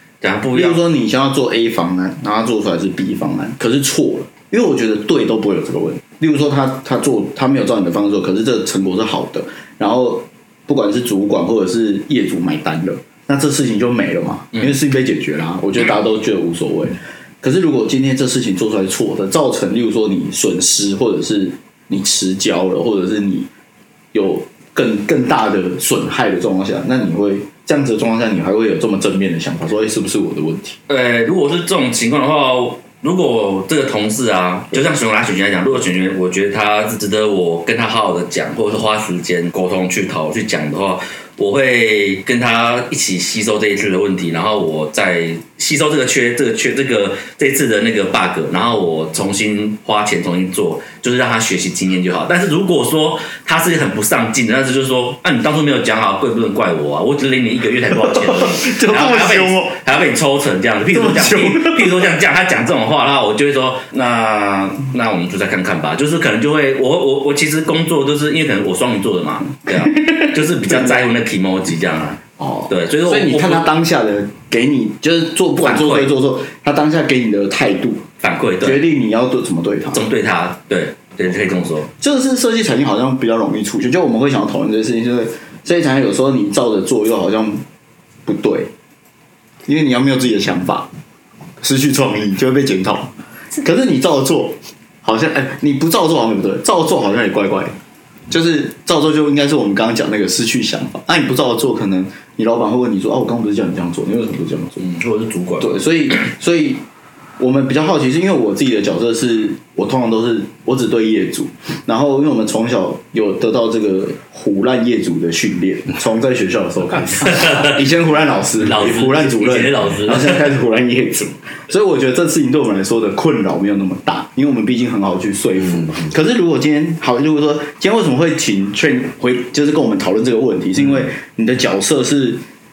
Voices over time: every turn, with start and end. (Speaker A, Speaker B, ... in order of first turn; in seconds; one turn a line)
Speaker A: 0.2-0.8
Speaker B: 0.5-23.5
Speaker B: 24.1-30.8
Speaker A: 30.9-73.7
Speaker B: 58.1-59.8
Speaker B: 60.9-61.9
Speaker B: 70.2-70.9
Speaker B: 72.4-78.0
Speaker A: 75.6-76.1
Speaker A: 78.2-78.8
Speaker B: 78.6-80.0
Speaker A: 79.9-81.9
Speaker B: 82.0-87.6
Speaker B: 88.2-88.7
Speaker B: 89.7-90.9
Speaker B: 91.6-93.1
Speaker B: 93.6-97.7
Speaker B: 98.3-104.8
Speaker A: 104.8-105.8
Speaker B: 105.6-106.8
Speaker B: 107.4-132.4
Speaker A: 117.3-117.8
Speaker A: 118.6-120.4